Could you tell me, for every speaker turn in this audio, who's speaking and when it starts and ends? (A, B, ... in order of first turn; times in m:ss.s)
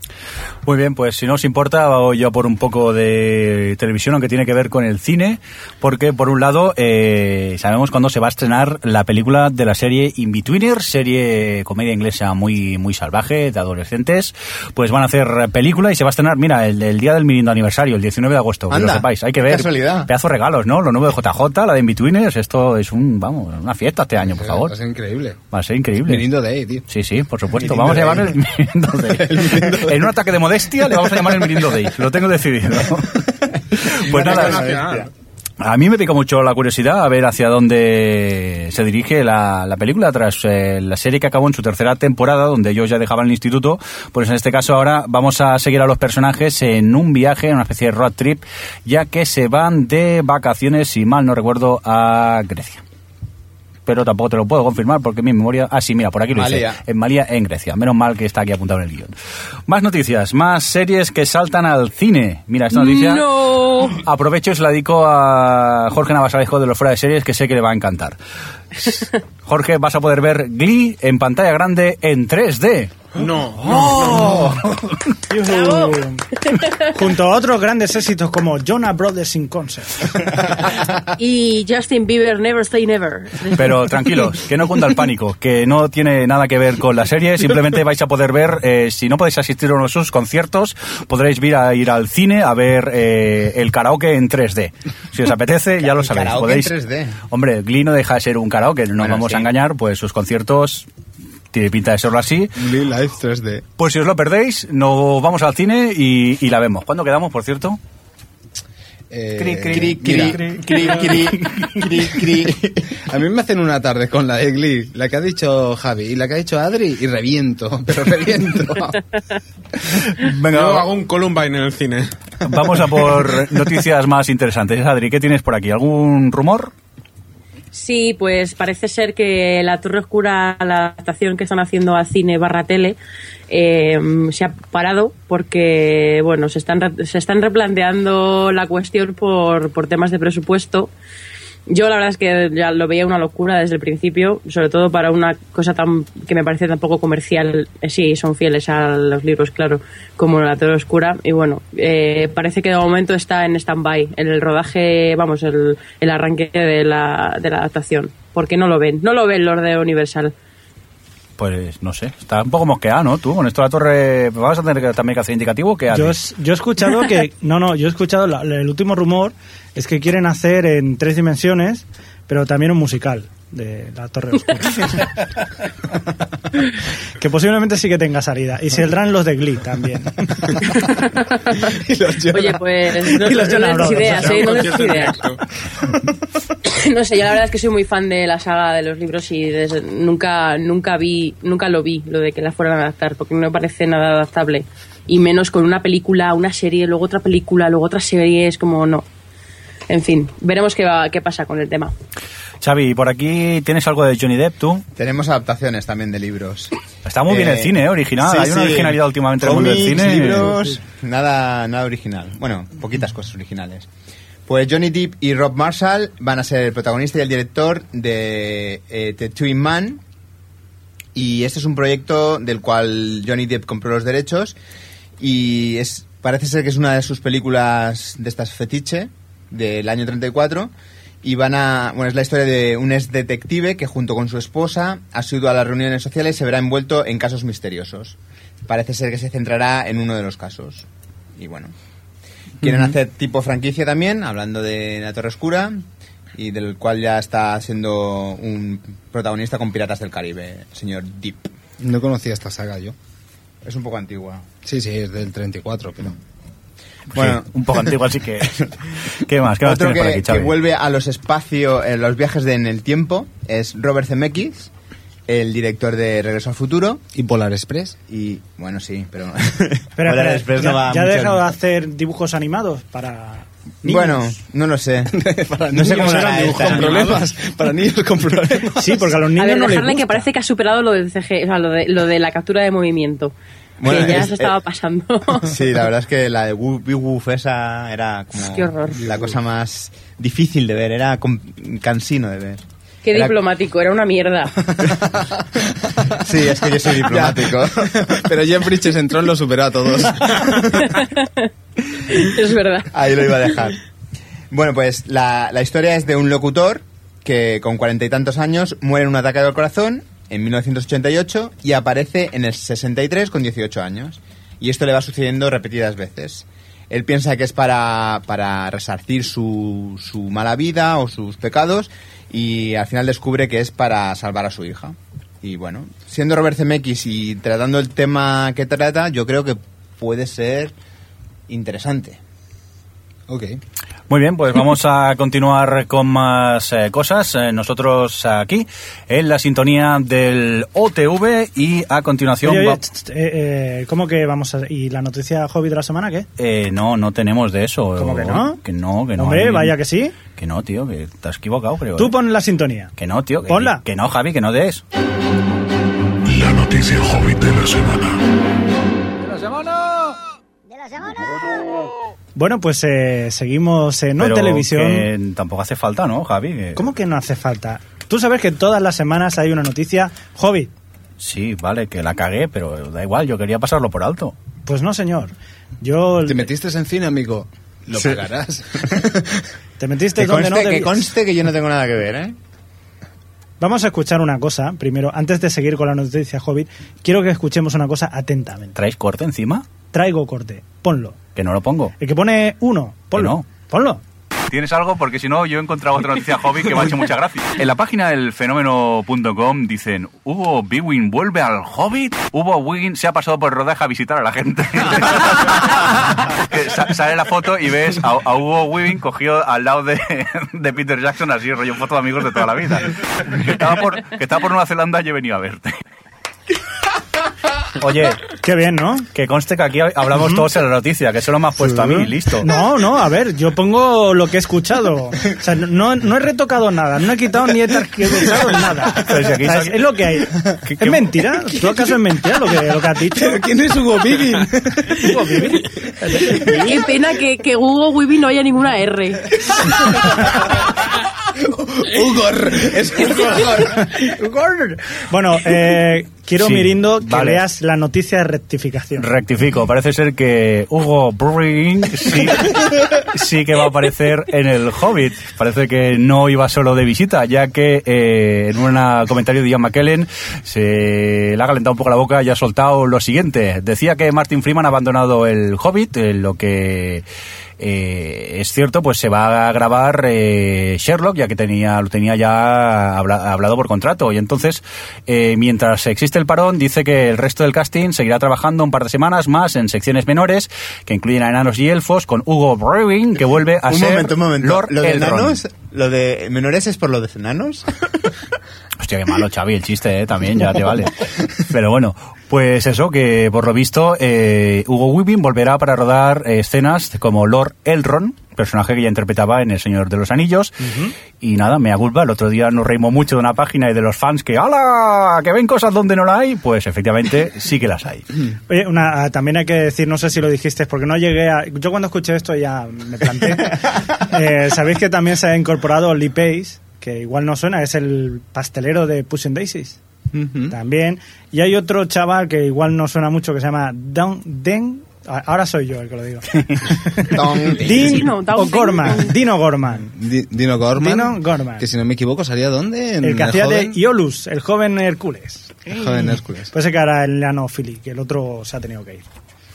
0:00.6-0:24.7 A
0:18.7-0:20.1 B
0:24.2-0:25.4 C
0:25.5-0:26.3 A
0:26.0-0:26.8 C
0:26.9-0:34.7 A
0:27.6-0:28.3 C
0:27.6-0:28.1 B
0:29.1-0:30.1 C
0:34.1-0:35.1 D
0:34.2-0:35.0 B
0:35.6-0:52.8 A
0:53.8-0:59.1 A
0:56.3-0:56.8 B
0:59.7-1:08.2 A
1:02.7-1:04.0 E
1:08.8-1:13.0 A
1:13.1-1:14.5 D
1:13.6-1:15.0 A
1:15.3-1:16.2 F
1:15.4-1:16.8 E
1:16.8-1:20.5 F
1:21.1-1:24.0 E
1:23.6-1:36.7 A
1:35.8-1:37.2 B
1:37.3-1:40.9 A
1:39.0-1:39.5 B
1:41.5-1:42.5 A
1:42.6-1:43.6 C
1:43.8-1:47.8 A
1:49.1-1:50.4 C
1:49.4-1:52.9 B
1:49.6-1:51.3 A
1:53.0-1:59.0 C
2:00.1-2:00.9 A
2:00.5-2:02.1 D
2:02.4-2:06.7 A
2:07.7-2:13.0 E
2:13.5-2:20.9 E
2:21.7-2:40.3 E
2:41.4-2:46.2 A
2:45.9-2:55.1 F
2:57.2-3:00.7 F
3:00.7-3:01.7 E
3:01.7-3:03.4 C
3:02.3-3:05.2 E
3:03.3-3:04.6 F
3:04.0-3:05.4 D
3:06.6-3:19.0 E
3:19.9-3:21.9 E
3:22.6-3:24.8 A
3:25.0-3:26.7 B
3:27.0-3:30.5 A
3:27.3-3:33.9 B
3:34.4-3:40.0 B
3:41.1-3:44.6 B
3:45.2-3:50.7 B
3:51.2-4:00.8 B
4:01.4-4:01.7 B
4:02.6-4:05.8 B
4:06.3-4:11.5 B
4:11.8-4:12.9 C
4:13.6-4:14.4 B
4:14.6-4:16.2 C
4:17.1-4:20.6 A
4:17.1-4:18.6 B
4:19.6-4:24.7 B
4:25.3-4:27.0 B
4:27.1-4:28.0 C
4:28.1-4:31.5 B
4:30.0-4:34.3 F
4:33.8-4:35.1 B
4:35.1-4:39.2 C
4:35.7-4:37.2 B
4:35.9-4:37.2 F
4:38.8-4:40.3 F
4:39.4-4:43.3 E
4:43.8-4:44.5 B
4:43.8-4:45.5 E
4:45.4-4:53.4 B
4:48.4-4:49.0 E
4:49.0-4:49.4 C
4:53.0-4:54.7 E
4:56.1-4:58.1 B
4:56.8-5:01.0 C
5:00.8-5:01.5 E
5:02.1-5:02.9 E
5:02.9-5:03.8 B
5:04.5-5:30.7 B
5:31.5-5:32.2 B
5:33.3-5:33.6 C
5:34.1-5:42.8 A
5:42.4-5:46.3 F
5:46.4-5:49.8 A
5:48.0-5:48.6 F
5:49.2-5:50.2 F
5:50.3-5:52.2 A
5:52.0-5:52.9 F
5:53.0-5:54.8 A
5:53.5-5:53.8 F
5:56.2-5:58.2 G
5:59.2-6:00.1 A
6:02.4-6:05.1 F
6:04.2-6:06.8 A
6:06.8-6:10.7 F
6:11.2-6:14.3 A
6:14.6-6:16.5 F
6:16.2-6:19.4 C
6:17.9-6:18.3 B
6:19.8-6:21.0 F
6:20.2-6:22.4 B
6:23.6-6:28.8 F
6:28.8-6:29.6 A
6:29.9-6:31.2 F
6:31.4-6:31.9 A
6:32.0-6:34.0 F
6:33.1-6:33.4 A
6:34.5-6:55.7 A
6:57.8-6:58.3 A
6:58.4-6:59.1 F
6:59.1-7:02.5 A
7:00.2-7:00.4 F
7:01.7-7:13.4 F
7:09.0-7:10.0 A
7:10.6-7:11.2 A
7:13.1-7:15.2 C
7:15.0-7:16.8 F
7:16.2-7:16.5 C
7:16.4-7:20.0 E
7:19.9-7:20.7 C
7:21.3-7:23.9 C
7:23.6-7:29.1 F
7:26.4-7:27.4 A
7:29.0-7:47.0 A
7:47.6-8:05.4 A
8:03.6-8:07.7 B
8:08.8-8:28.1 A
8:20.7-8:20.9 F
8:28.5-8:39.8 F
8:40.1-8:40.5 C
8:40.5-8:50.0 F
8:47.0-8:48.1 B
8:47.7-8:49.2 E
8:50.0-8:53.8 C
8:50.8-8:51.6 F
8:53.0-8:59.0 F
8:55.7-8:56.5 C